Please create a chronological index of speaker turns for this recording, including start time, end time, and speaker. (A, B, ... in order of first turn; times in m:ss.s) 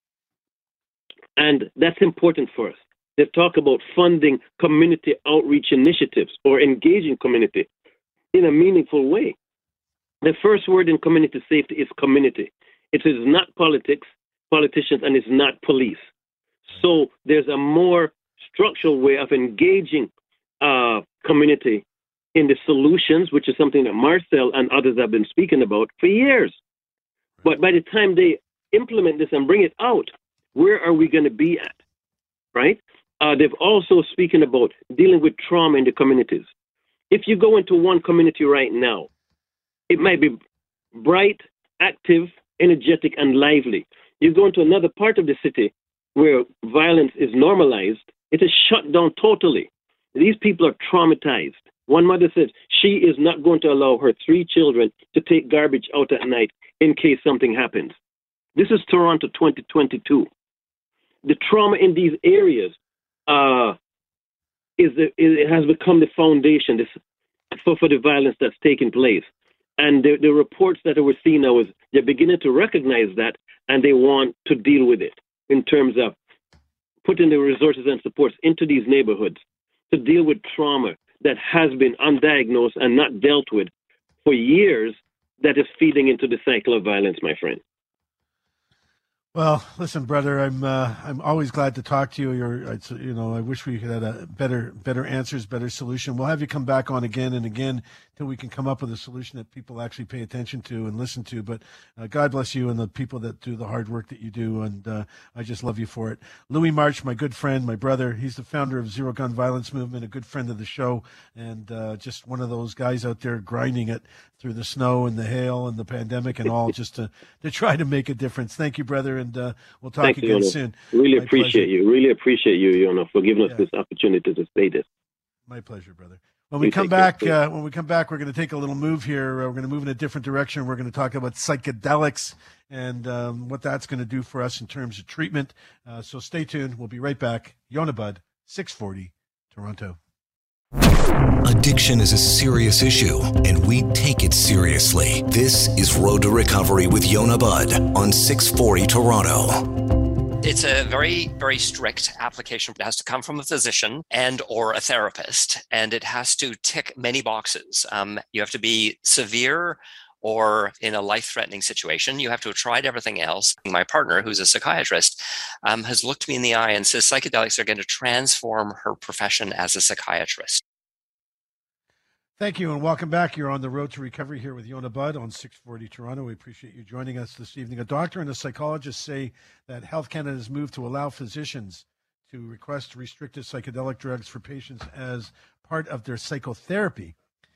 0:01.4-0:07.7 A
0:08.3-0:09.3 A
0:10.2-0:16.0 A
0:16.7-0:20.1 A
0:20.6-0:21.8 A
0:22.4-0:26.6 A
0:27.4-0:31.8 A
0:32.5-0:36.5 A
0:37.1-0:39.1 A
0:39.9-0:40.4 A
0:40.9-0:57.9 A
0:58.6-1:00.3 A
1:01.2-1:02.7 A
1:03.3-1:03.8 A
1:04.8-1:06.9 A
1:07.5-1:09.3 A
1:09.8-1:16.2 A
1:17.0-1:23.7 A
1:24.2-1:27.6 A
1:29.3-2:01.7 B
2:00.0-2:04.8 A
2:05.5-2:20.0 B
2:06.6-2:07.3 A
2:21.4-2:29.6 C
2:30.4-2:50.6 D
2:52.4-3:07.1 B